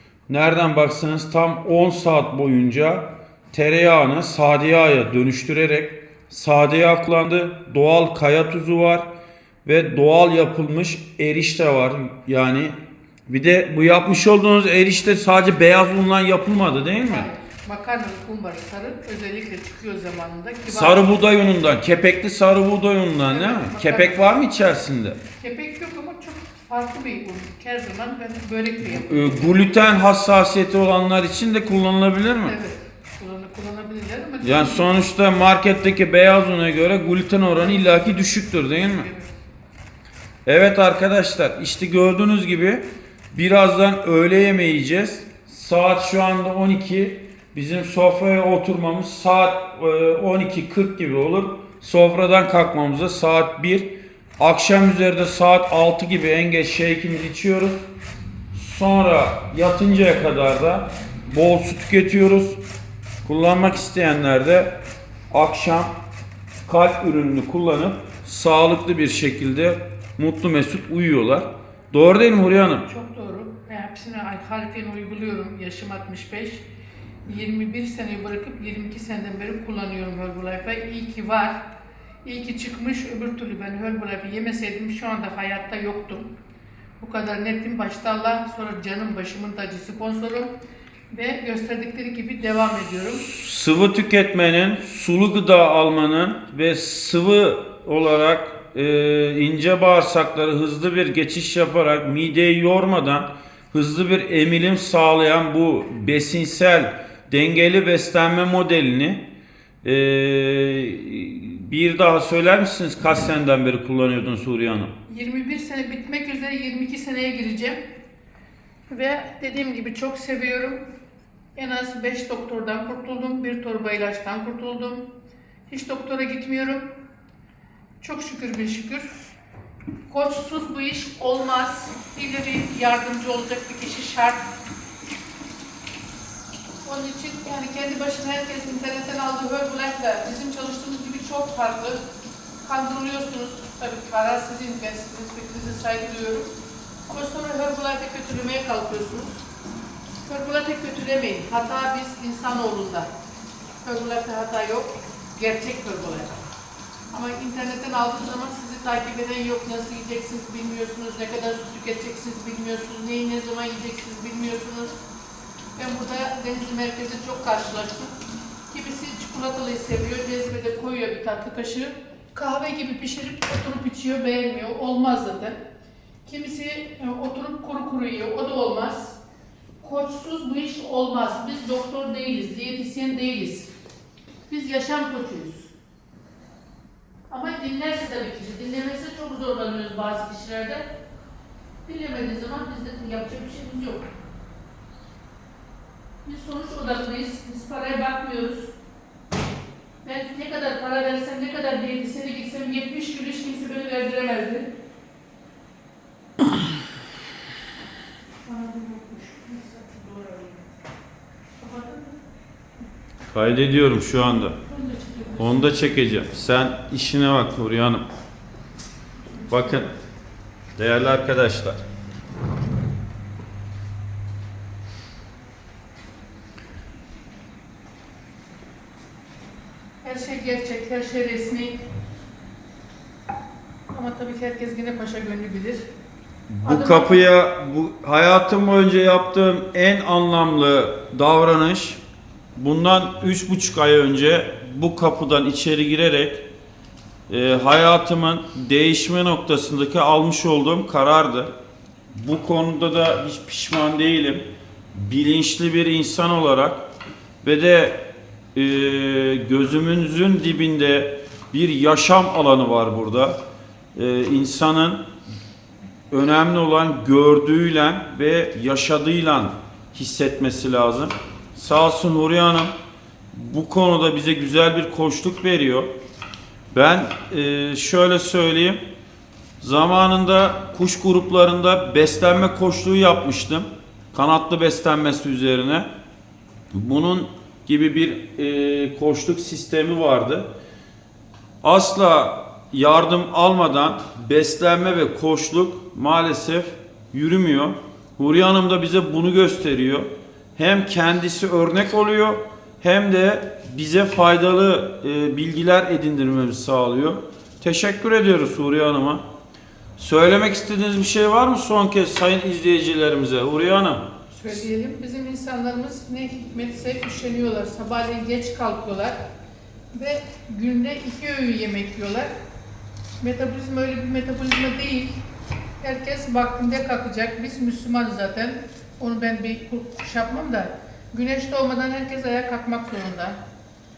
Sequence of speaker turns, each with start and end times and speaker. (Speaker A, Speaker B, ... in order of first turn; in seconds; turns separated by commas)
Speaker A: 0.3-9.1, Speaker A: 9.6-17.3, Speaker B: 17.1-21.1, Speaker A: 20.7-25.2, Speaker B: 23.3-24.4, Speaker B: 25.4-29.6, Speaker A: 28.8-32.5, Speaker B: 32.4-34.9, Speaker A: 34.4-39.1, Speaker B: 38.7-39.3, Speaker A: 40.5-57.8, Speaker A: 58.5-62.6, Speaker A: 63.2-64.8, Speaker A: 65.3-66.0, Speaker A: 66.7-72.9, Speaker B: 72.9-76.6, Speaker B: 77.2-81.6, Speaker B: 82.2-86.3, Speaker B: 87.0-90.5, Speaker B: 91.1-93.2, Speaker A: 93.1-109.2, Speaker A: 109.8-114.9, Speaker B: 115.1-117.8, Speaker B: 118.9-120.8, Speaker B: 121.5-125.1, Speaker B: 125.7-126.8, Speaker B: 128.0-129.1, Speaker B: 130.1-134.4, Speaker B: 136.8-142.0, Speaker B: 142.6-146.5, Speaker B: 147.1-149.4, Speaker B: 150.2-153.1, Speaker B: 153.8-156.4, Speaker B: 157.1-165.0, Speaker B: 165.8-168.2, Speaker B: 168.7-175.6, Speaker B: 176.2-179.2, Speaker B: 179.8-183.7, Speaker B: 184.5-185.7, Speaker B: 187.3-190.9, Speaker B: 191.8-194.1, Speaker B: 196.2-198.7, Speaker B: 200.0-204.7, Speaker B: 208.4-210.7, Speaker B: 211.6-212.2, Speaker A: 213.3-214.6, Speaker B: 214.7-215.8, Speaker A: 215.4-218.0, Speaker B: 219.3-219.9, Speaker A: 219.5-219.9, Speaker A: 220.8-221.8, Speaker B: 230.0-231.8, Speaker B: 233.9-235.9, Speaker A: 236.5-242.0, Speaker B: 236.6-237.2, Speaker A: 242.6-246.4, Speaker A: 247.3-251.5, Speaker A: 252.1-256.8, Speaker A: 257.4-263.4, Speaker A: 263.9-265.0, Speaker A: 266.1-272.7, Speaker A: 273.3-275.9, Speaker A: 276.7-278.8, Speaker A: 279.6-285.9, Speaker A: 286.7-290.5, Speaker A: 291.6-309.2, Speaker A: 310.0-314.1, Speaker B: 314.3-319.2, Speaker B: 319.9-322.3, Speaker B: 323.2-325.2, Speaker B: 325.8-333.4